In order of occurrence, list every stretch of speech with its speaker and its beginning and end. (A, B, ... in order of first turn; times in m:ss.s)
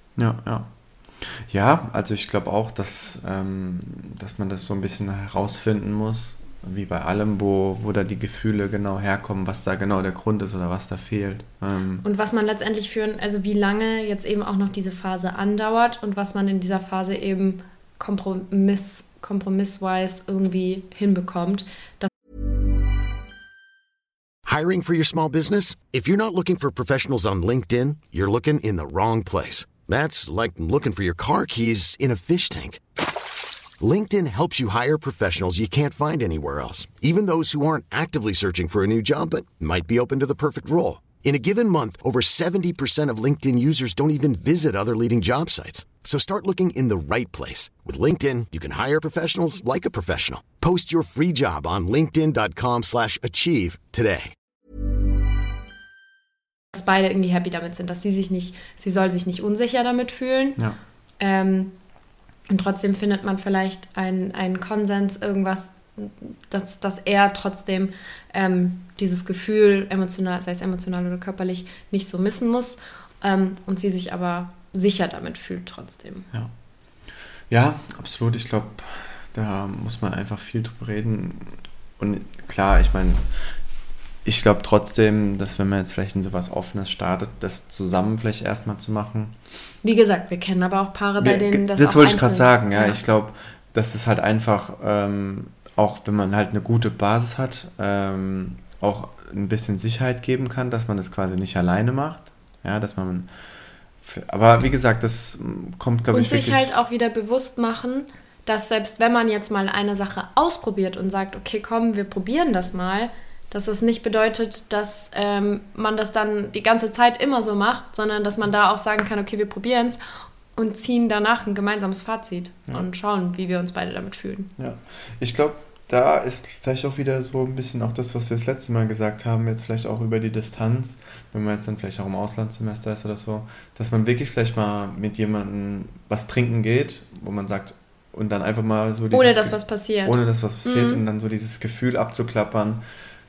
0:00.2-0:12.0 A
0:12.0-0:22.1 B
0:24.4-0:32.8 C
0:33.8-0:54.3 C
0:56.7-1:00.6 B
1:01.2-1:01.8 B
1:02.5-1:16.3 B
1:17.5-1:23.3 A
1:24.2-1:29.4 A
1:29.8-1:33.0 B
1:31.2-1:43.3 A
1:44.0-1:46.7 A
1:46.1-2:04.5 B
2:04.6-2:22.8 A
2:19.1-2:21.0 B